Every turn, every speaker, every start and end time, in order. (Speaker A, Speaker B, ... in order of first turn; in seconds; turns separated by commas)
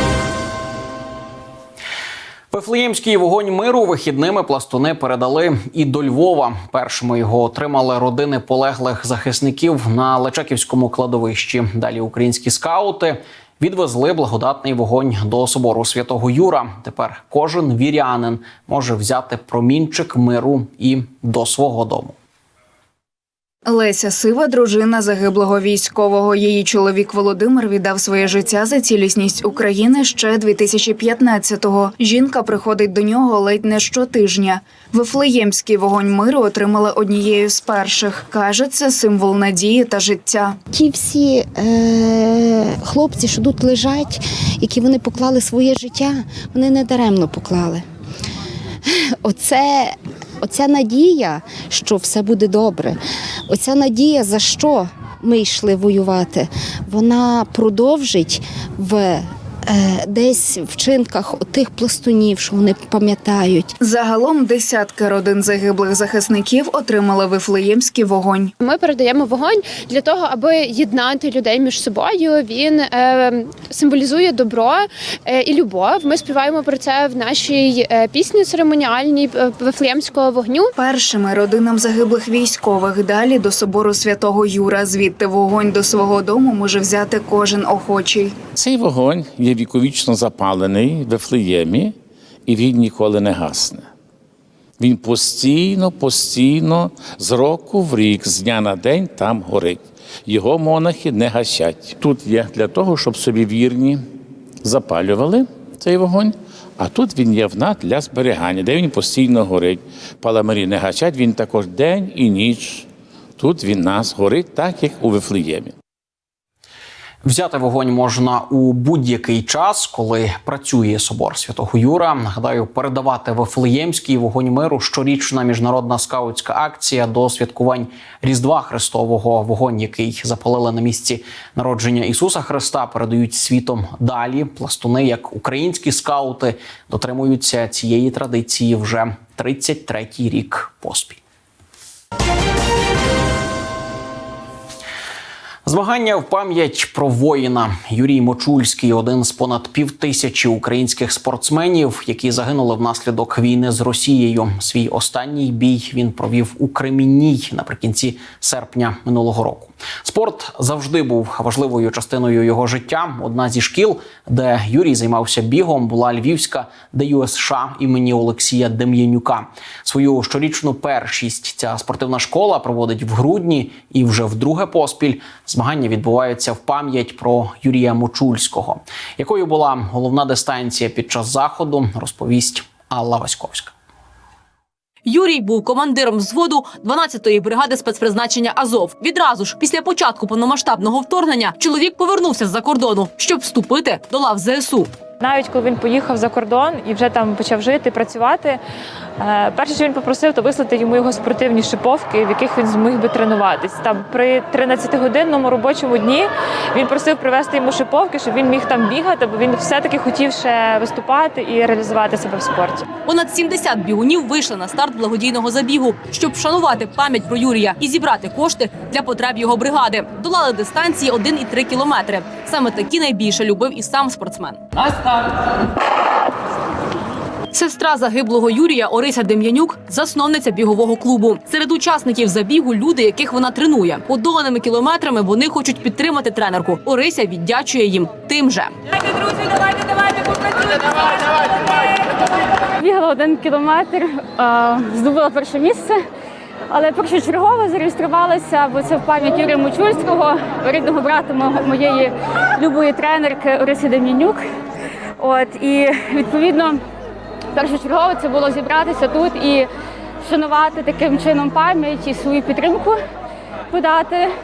Speaker A: 2.5-22.1, Speaker B: 23.6-40.6, Speaker C: 40.7-47.8, Speaker C: 48.9-63.7, Speaker B: 63.8-68.5, Speaker D: 68.6-80.7, Speaker B: 80.8-88.4, Speaker E: 88.5-91.9, Speaker E: 92.5-93.9, Speaker E: 94.8-104.0, Speaker E: 104.6-112.9, Speaker E: 113.4-115.7, Speaker A: 117.2-141.2, Speaker A: 145.7-183.7, Speaker F: 185.1-195.0, Speaker G: 195.2-198.6, Speaker G: 199.2-212.9, Speaker F: 213.0-224.8, Speaker F: 227.5-238.7, Speaker H: 242.8-246.0, Speaker H: 246.7-254.4, Speaker H: 255.2-256.8, Speaker H: 257.5-259.7, Speaker H: 260.2-263.0, Speaker H: 263.7-264.3